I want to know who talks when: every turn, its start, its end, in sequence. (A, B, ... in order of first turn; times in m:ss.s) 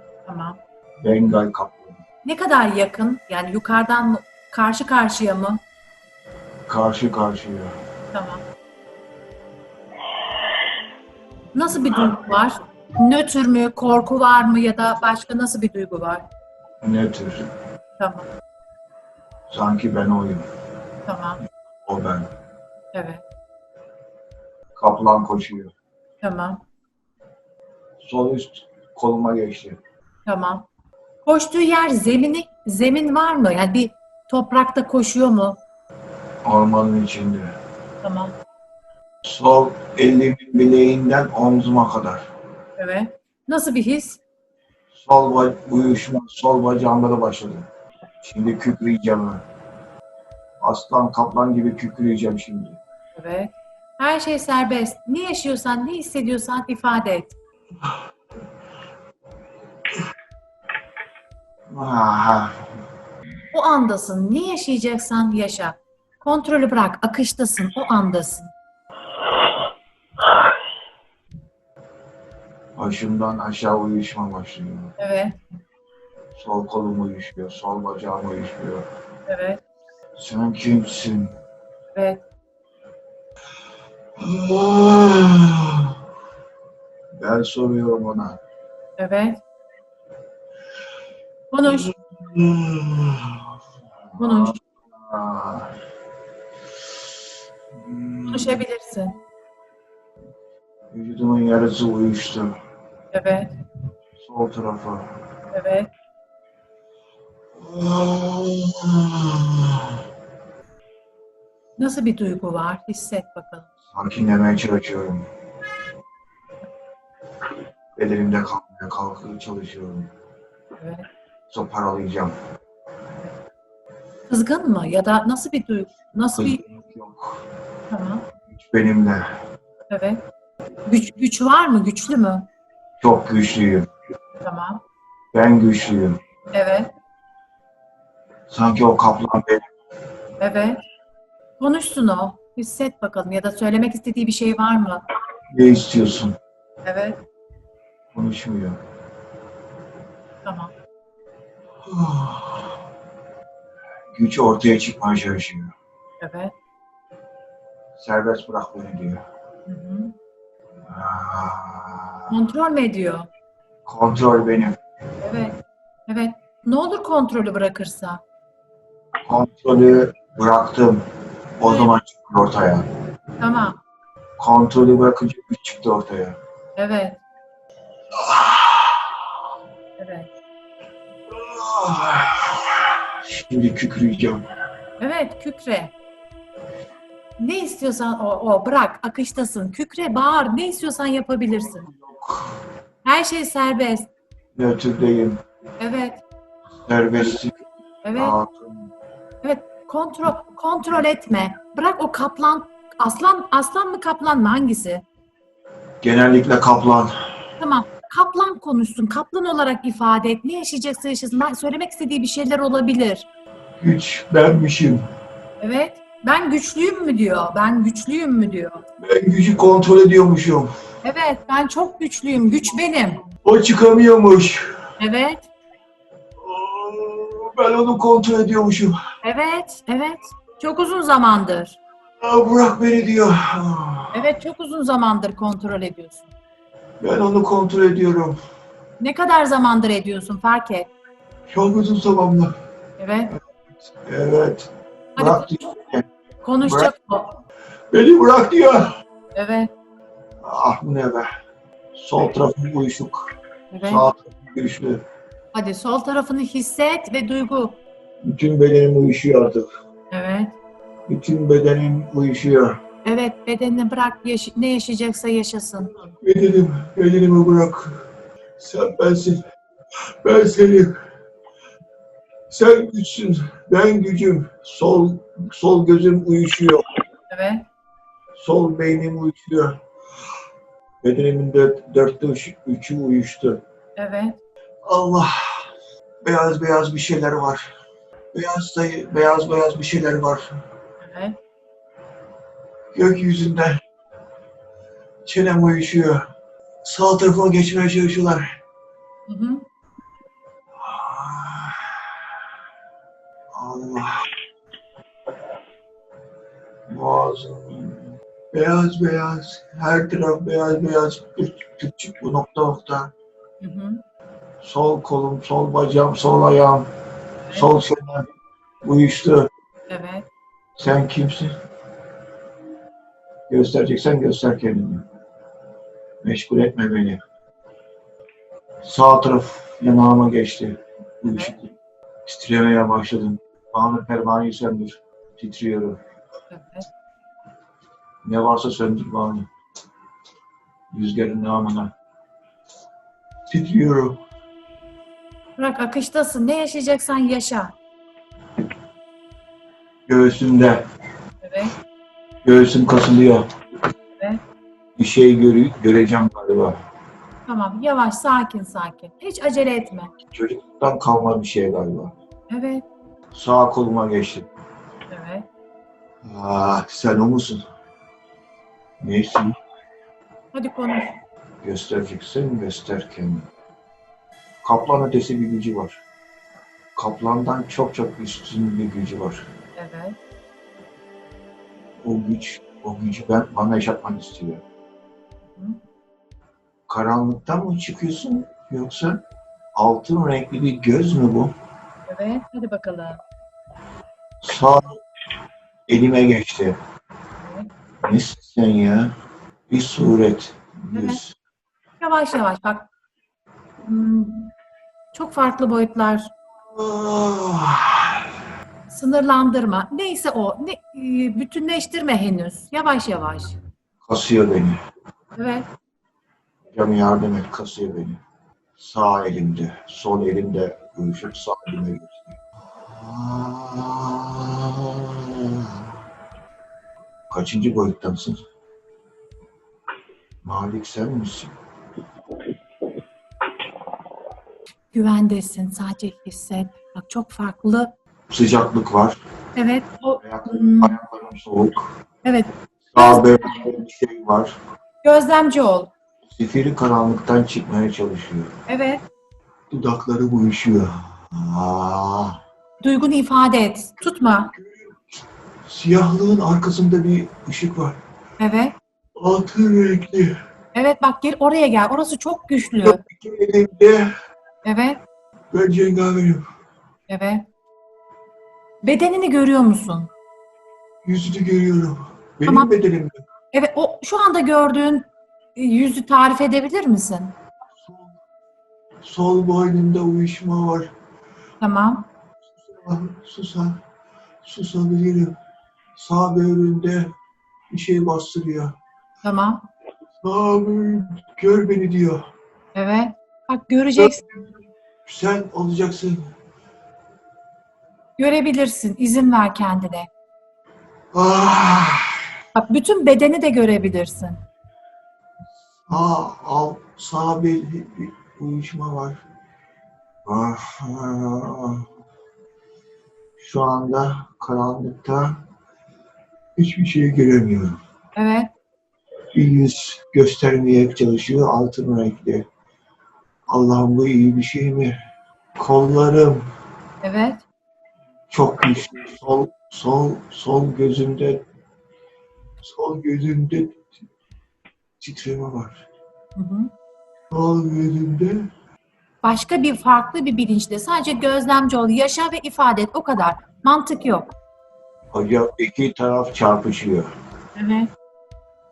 0:00.3-0:00.6 A
0:01.0-0:02.0 B
0:02.2-0:05.6 A
0:06.7-0:07.8 B
0:08.1-0:08.4 A
0:11.5-0:16.2 A
0:16.8-0:17.5 B
0:18.0-0:18.3 A
0:19.5-0:20.5 B
0:21.0-0:21.4 A
0:21.8-0:22.3 B
0:22.9-0:23.2 A
0:24.8-0:25.7 B
0:26.2-0:26.6 A
0:28.0-0:29.8 B
0:30.3-0:30.7 A
0:31.3-0:35.6 A
0:36.4-0:37.6 B
0:38.0-0:38.3 A
0:39.2-0:42.2 B
0:42.8-0:44.2 A
0:44.9-0:47.7 B
0:48.2-0:49.4 B
0:50.6-0:52.8 B
0:53.2-0:57.4 A
1:01.7-1:02.8 B
1:03.5-1:08.5 A
1:12.8-1:15.0 B
1:15.0-1:15.4 A
1:16.4-1:18.9 B
1:19.3-1:19.6 A
1:20.2-1:21.4 B
1:22.0-1:22.2 A
1:24.2-1:26.0 B
1:27.2-1:28.4 B
1:29.0-1:29.4 A
1:31.5-1:31.9 A
1:31.6-1:33.6 B
1:34.1-1:35.8 B
1:34.2-1:34.6 A
1:37.7-1:38.6 B
1:38.3-1:39.2 A
1:40.9-1:42.6 B
1:43.1-1:43.5 A
1:44.2-1:45.2 B
1:45.5-1:45.9 A
1:47.6-1:50.0 B
1:51.8-1:53.7 A
1:53.9-1:55.3 B
1:58.0-2:00.1 B
2:00.8-2:01.1 A
2:01.5-2:02.4 B
2:04.3-2:06.6 A
2:06.4-2:07.4 B
2:07.9-2:08.2 A
2:08.5-2:09.3 B
2:09.9-2:10.2 A
2:10.9-2:12.5 A
2:13.0-2:13.9 B
2:14.4-2:14.8 A
2:15.3-2:16.2 B
2:16.5-2:16.9 A
2:18.5-2:19.6 B
2:20.4-2:20.8 A
2:21.6-2:25.0 A
2:25.5-2:26.4 B
2:26.8-2:27.2 A
2:28.1-2:28.8 B
2:30.4-2:30.7 A
2:31.8-2:32.8 B
2:34.1-2:35.7 B
2:36.2-2:36.5 A
2:38.0-2:39.2 B
2:39.7-2:40.2 A
2:40.9-2:42.4 B
2:42.3-2:43.3 A
2:43.9-2:44.8 B
2:45.2-2:48.2 A
2:49.2-2:51.1 B
2:51.6-2:52.9 B
2:53.4-2:53.8 A
2:54.4-2:56.4 B
2:56.8-2:57.2 A
2:58.2-2:59.2 B
3:00.0-3:00.3 A
3:01.3-3:04.4 B
3:05.0-3:05.9 A
3:07.4-3:11.9 A
3:11.8-3:12.6 B
3:13.0-3:14.1 A
3:14.6-3:15.4 B
3:15.8-3:16.2 A
3:16.9-3:17.6 B
3:18.0-3:18.4 A
3:18.1-3:18.9 B
3:19.4-3:25.0 A
3:26.0-3:27.1 B
3:27.6-3:33.3 A
3:33.8-3:35.0 B
3:35.6-3:38.8 A
3:39.0-3:40.7 B
3:41.0-3:43.2 A
3:43.4-3:44.7 B
3:45.0-3:45.5 A
3:46.4-3:49.0 B
3:49.2-3:51.8 A
3:52.2-3:54.2 B
3:54.1-3:56.3 A
3:57.0-3:58.4 B
3:59.0-4:00.9 A
4:01.5-4:02.6 B
4:03.0-4:03.4 A
4:04.0-4:06.1 B
4:05.2-4:05.6 A
4:06.4-4:07.3 A
4:06.6-4:06.9 B
4:07.9-4:09.0 B
4:09.4-4:09.7 A
4:10.4-4:11.3 B
4:12.0-4:13.3 B
4:13.7-4:14.1 A
4:13.8-4:15.0 B
4:15.5-4:17.8 A
4:18.2-4:19.7 B
4:20.1-4:20.6 A
4:21.1-4:22.8 B
4:23.0-4:25.9 A
4:26.0-4:29.4 B
4:30.2-4:31.0 B
4:32.5-4:36.9 B
4:37.3-4:37.6 A
4:38.4-4:39.8 B
4:41.0-4:43.6 B
4:44.0-4:44.4 A
4:44.8-4:45.7 B
4:46.2-4:47.7 B
4:48.3-4:50.6 B
4:51.0-4:51.4 A
4:52.9-4:53.8 B
4:55.3-4:56.3 B
4:56.8-4:58.6 B
4:59.3-4:59.7 A
5:00.8-5:02.1 B
5:03.5-5:04.2 B
5:06.9-5:13.1 B
5:13.6-5:14.0 A
5:14.6-5:16.9 B
5:17.5-5:18.3 B
5:18.8-5:19.5 B
5:19.9-5:20.3 A
5:20.8-5:21.6 B
5:23.5-5:25.1 B
5:26.2-5:27.2 B
5:28.8-5:31.7 B
5:31.3-5:31.6 A
5:32.3-5:36.0 B
5:36.5-5:36.9 A
5:38.2-5:39.5 B
5:40.9-5:41.9 B
5:43.5-5:44.2 B
5:45.6-5:47.8 A
5:50.1-5:50.8 B
5:51.4-5:51.7 A
5:52.4-5:53.5 B
5:55.0-5:56.8 B
5:57.5-6:00.1 A
6:00.3-6:02.1 B
6:02.5-6:02.8 A
6:03.3-6:04.5 B
6:05.1-6:05.5 A
6:06.2-6:07.6 B
6:09.0-6:09.6 B
6:10.5-6:11.2 A
6:11.6-6:13.5 B
6:14.6-6:16.0 B
6:17.0-6:19.5 B
6:19.8-6:20.2 A
6:22.0-6:24.6 B
6:26.9-6:29.2 B
6:29.8-6:31.5 B
6:32.1-6:33.2 A
6:34.4-6:35.0 B
6:35.9-6:36.8 B
6:37.4-6:37.7 A
6:38.0-6:39.1 B
6:39.7-6:41.4 B
6:40.9-6:41.2 A
6:42.0-6:42.9 A
6:43.8-6:44.5 A
6:45.1-6:46.3 A
6:46.7-6:48.3 B
6:48.9-6:53.6 A
6:54.0-6:54.8 B
6:55.4-6:55.7 A
6:56.7-6:58.2 B
6:58.8-7:06.0 B
7:07.3-7:08.4 B
7:10.4-7:11.6 B
7:14.9-7:17.9 A
7:18.3-7:19.2 B
7:19.6-7:21.0 A
7:20.2-7:21.9 B
7:22.2-7:23.7 A
7:22.9-7:24.6 B
7:25.0-7:25.9 A
7:26.3-7:28.5 B
7:28.7-7:29.0 A
7:29.7-7:32.4 B
7:32.8-7:34.5 A
7:34.3-7:35.0 B
7:35.6-7:38.0 B
7:38.4-7:38.8 A
7:39.2-7:40.4 B
7:40.7-7:43.0 A
7:42.8-7:44.1 B
7:44.6-7:45.0 A
7:45.5-7:46.5 B
7:47.1-7:47.4 A
7:48.8-7:50.1 A
7:51.0-7:53.2 B
7:52.5-7:52.7 A
7:53.5-7:57.4 A
7:57.8-7:58.1 B
7:59.0-8:00.9 B
8:01.6-8:02.1 A
8:02.5-8:03.8 B
8:04.4-8:05.4 B
8:06.0-8:07.2 B
8:07.7-8:08.8 B
8:09.2-8:09.7 A
8:10.2-8:12.3 B
8:12.8-8:14.2 A
8:14.0-8:14.5 B
8:15.0-8:16.3 B
8:18.2-8:20.1 A
8:21.1-8:22.3 B
8:22.6-8:24.4 A
8:25.9-8:29.2 B
8:30.2-8:31.9 B
8:33.4-8:35.4 B
8:36.6-8:37.8 B
8:38.2-8:38.5 A
8:39.3-8:42.5 B
8:43.5-8:45.0 B
8:45.6-8:46.5 B
8:47.0-8:47.4 A
8:48.3-8:51.4 B
8:52.6-8:53.9 B
8:55.0-8:55.9 B
8:56.4-8:56.7 A
8:57.3-8:58.5 B
8:59.2-9:04.3 A
9:05.1-9:07.1 B
9:07.6-9:07.9 A